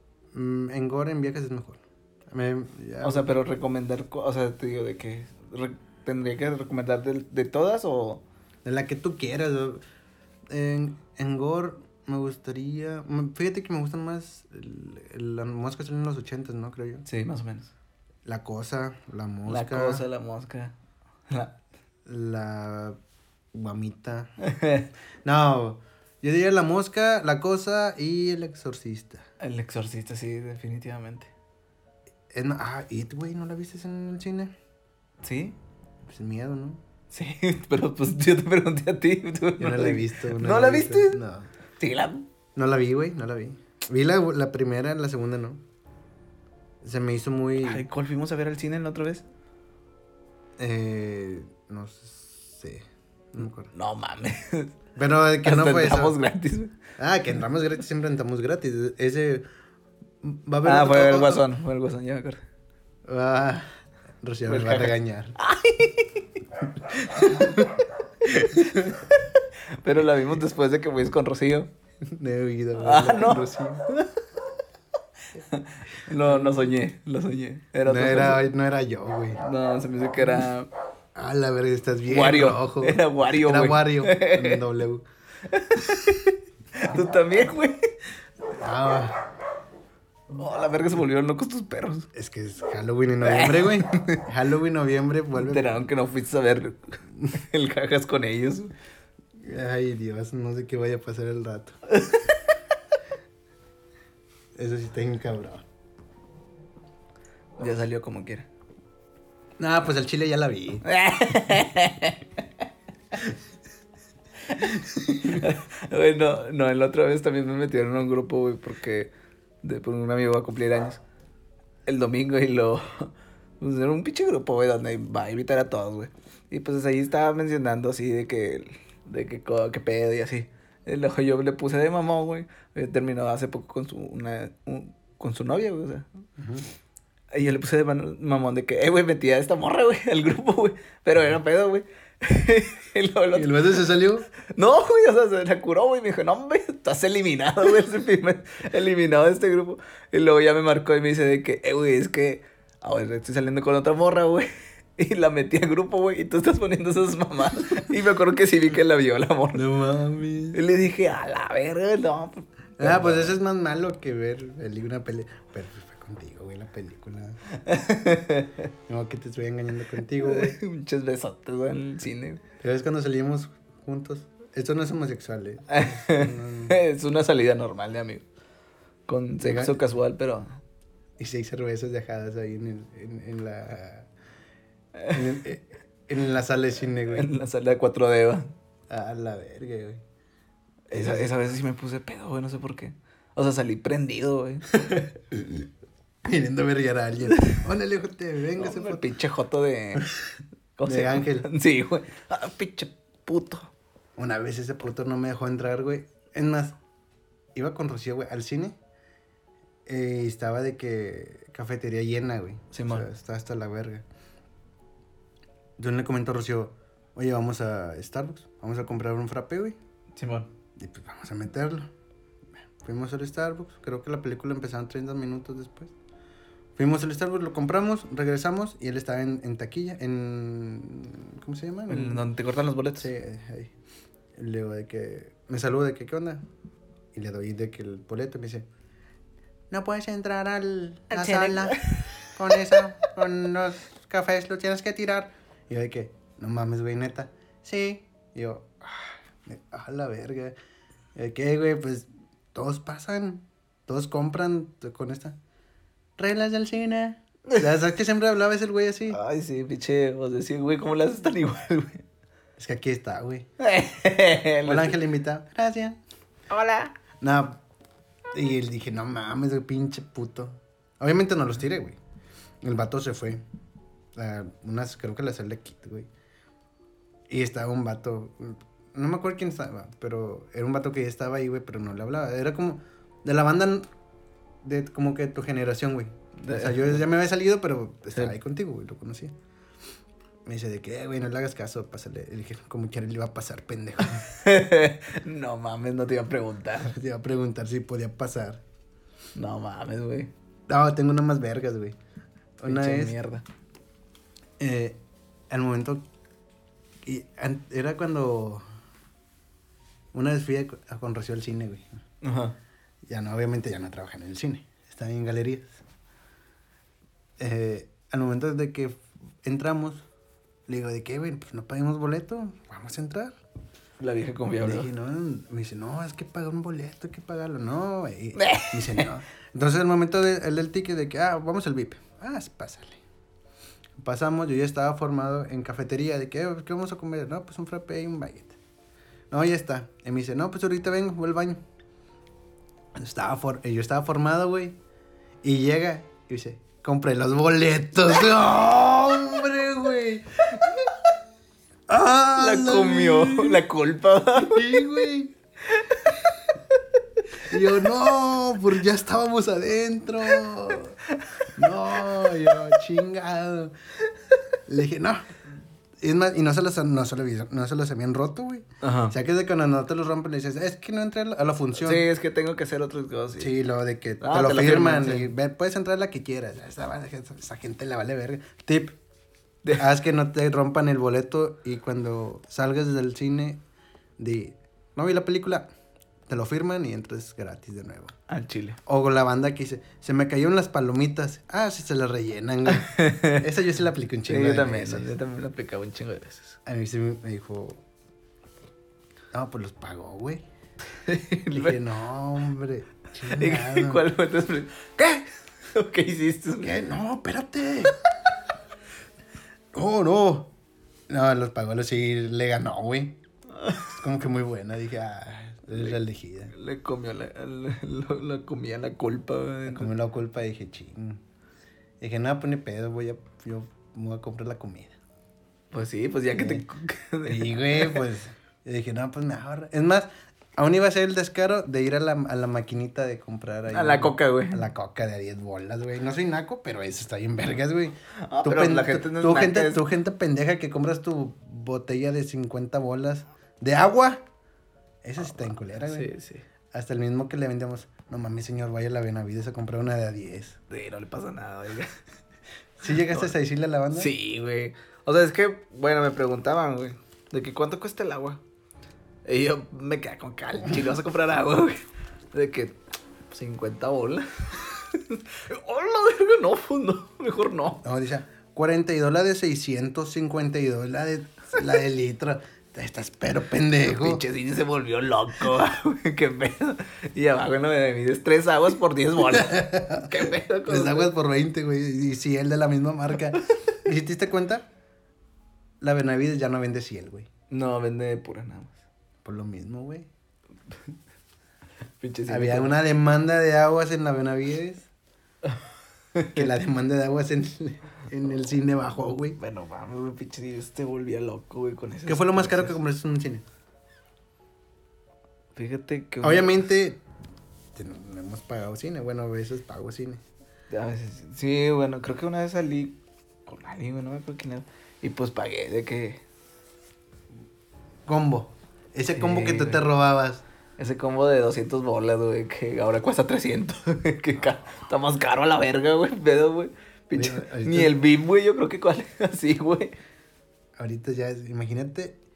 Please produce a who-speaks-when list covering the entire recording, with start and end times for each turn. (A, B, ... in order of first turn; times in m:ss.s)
0:00.3-0:03.3 A
0:03.0-0:08.2 B
0:08.6-0:09.8 A
0:10.5-0:17.0 A
0:17.0-0:17.7 B
0:18.2-0:20.0 A
0:19.5-0:20.7 B
0:21.3-0:21.6 B
0:22.0-0:23.0 A
0:23.5-0:24.3 A
0:24.4-0:24.9 B
0:25.2-0:29.2 A
0:29.4-0:31.3 B
0:32.3-0:34.5 A
0:35.2-0:35.6 B
0:36.1-0:36.8 A
0:37.1-0:41.2 B
0:39.6-0:41.5 A
0:41.8-0:42.2 B
0:42.6-0:45.6 A
0:46.8-0:47.8 A
0:47.6-0:49.2 B
0:50.6-0:53.7 A
0:53.7-0:54.7 B
0:55.0-0:56.2 A
0:55.4-0:56.7 B
0:57.0-0:59.4 A
1:00.2-1:01.4 A
1:00.6-1:02.4 B
1:03.0-1:03.7 A
1:04.2-1:05.4 A
1:04.5-1:06.4 B
1:06.9-1:09.0 A
1:08.3-1:11.7 B
1:12.0-1:13.8 A
1:12.8-1:14.1 B
1:15.3-1:18.4 B
1:16.2-1:16.7 A
1:17.8-1:19.4 A
1:19.4-1:20.7 B
1:21.1-1:25.0 A
1:22.1-1:24.6 B
1:25.4-1:27.9 B
1:28.5-1:29.2 A
1:30.3-1:32.1 B
1:32.1-1:35.7 A
1:33.2-1:34.2 B
1:35.4-1:38.7 B
1:39.4-1:41.8 A
1:41.9-1:42.4 B
1:44.6-1:45.6 A
1:47.6-1:48.5 B
1:49.6-1:50.8 A
1:50.8-1:52.4 B
1:54.5-1:59.1 B
1:54.6-1:55.5 A
1:59.6-2:01.0 B
2:01.8-2:16.1 B
2:16.4-2:16.6 A
2:17.3-2:23.8 B
2:23.3-2:24.3 A
2:24.4-2:39.7 B
2:39.5-2:40.6 A
2:40.5-2:43.4 B
2:42.8-2:47.4 A
2:47.5-2:48.7 B
2:48.9-2:50.6 A
2:50.2-2:52.4 B
2:52.6-2:56.8 A
2:55.7-2:58.2 B
2:59.1-3:00.6 B
2:59.4-2:59.8 A
3:01.2-3:04.1 A
3:05.0-3:05.4 B
3:05.1-3:07.3 A
3:07.0-3:08.5 B
3:08.9-3:10.0 A
3:10.9-3:15.0 B
3:10.9-3:11.3 A
3:14.9-3:15.7 A
3:16.2-3:19.0 A
3:17.3-3:17.6 B
3:18.6-3:20.1 B
3:20.8-3:23.7 B
3:20.8-3:21.5 A
3:24.2-3:26.8 A
3:27.5-3:28.8 A
3:29.8-3:34.0 A
3:32.7-3:33.1 B
3:35.8-3:39.8 A
3:40.2-3:40.5 B
3:40.8-3:41.9 A
3:42.8-3:45.9 A
3:46.8-3:52.3 A
3:51.9-3:53.1 B
3:53.0-3:53.7 A
3:54.4-3:56.4 A
3:57.1-3:58.6 A
3:59.7-4:10.5 A
4:01.1-4:02.8 B
4:11.1-4:15.4 A
4:16.2-4:19.2 A
4:19.1-4:22.0 B
4:22.6-4:23.5 A
4:23.6-4:25.0 B
4:24.6-4:26.0 A
4:26.5-4:26.9 B
4:27.2-4:27.6 A
4:28.3-4:32.0 A
4:32.6-4:33.4 A
4:34.1-4:36.1 A
4:37.3-4:43.9 A
4:44.6-4:49.3 A
4:46.4-4:47.0 B
4:50.4-4:54.3 A
4:54.2-4:56.9 B
4:56.9-4:58.6 A
4:59.3-5:00.3 B
5:00.7-5:02.0 A
5:02.6-5:03.2 A
5:02.7-5:03.4 B
5:04.6-5:05.0 A
5:05.5-5:06.0 A
5:07.0-5:08.6 A
5:10.1-5:11.9 A
5:12.2-5:12.6 B
5:13.1-5:15.8 A
5:17.4-5:20.0 A
5:20.7-5:23.3 A
5:24.0-5:24.9 B
5:24.6-5:33.0 A
5:28.3-5:29.1 B
5:34.0-5:38.6 A
5:39.3-5:41.6 A
5:42.9-5:44.8 A
5:45.4-5:50.9 A
5:51.9-5:53.6 A
5:52.3-5:54.8 B
5:54.4-5:55.3 A
5:55.7-5:56.2 B
5:57.4-6:01.0 A
6:01.1-6:01.5 B
6:01.6-6:03.7 A
6:04.7-6:05.2 A
6:06.0-6:12.0 A
6:08.8-6:09.1 B
6:11.8-6:13.5 B
6:13.4-6:18.9 A
6:14.2-6:15.3 B
6:19.7-6:23.6 A
6:24.2-6:25.7 A
6:26.3-6:28.1 A
6:28.3-6:28.8 B
6:28.8-6:35.1 A
6:32.7-6:33.4 B
6:34.3-6:36.6 B
6:36.6-6:37.8 A
6:39.3-6:40.4 A
6:41.0-6:41.8 B
6:41.5-6:44.0 A
6:43.2-6:46.7 B
6:46.6-6:48.0 A
6:49.7-6:50.5 A
6:51.1-6:53.2 A
6:53.6-6:53.9 B
6:53.9-6:56.5 A
6:56.5-6:59.9 B
6:59.7-7:01.2 A
7:02.0-7:04.9 A
7:05.7-7:08.0 B
7:06.3-7:06.6 A
7:07.2-7:24.2 A
7:13.7-7:14.6 B
7:18.2-7:19.8 B
7:25.0-7:26.1 A
7:25.8-7:26.4 B
7:26.7-7:30.6 A
7:30.7-7:31.9 B
7:32.8-7:34.1 A
7:32.9-7:33.3 B
7:33.9-7:38.4 B
7:39.2-7:41.8 B
7:42.3-7:42.8 B
7:43.3-7:47.8 B
7:47.8-7:54.2 A
7:53.8-8:01.1 B
7:59.2-8:04.6 A
8:05.8-8:07.3 A
8:07.5-8:08.8 B
8:09.2-8:10.1 A
8:12.0-8:12.8 B
8:12.3-8:14.9 A
8:16.1-8:16.5 B
8:16.3-8:19.4 A
8:19.4-8:22.8 B
8:22.1-8:23.4 A
8:25.6-8:26.6 B
8:26.2-8:27.0 A
8:27.7-8:30.2 A
8:30.7-8:36.2 B
8:38.0-8:40.4 A
8:39.1-8:39.8 B
8:40.8-8:49.9 B
8:47.1-8:48.0 A
8:50.8-8:52.2 A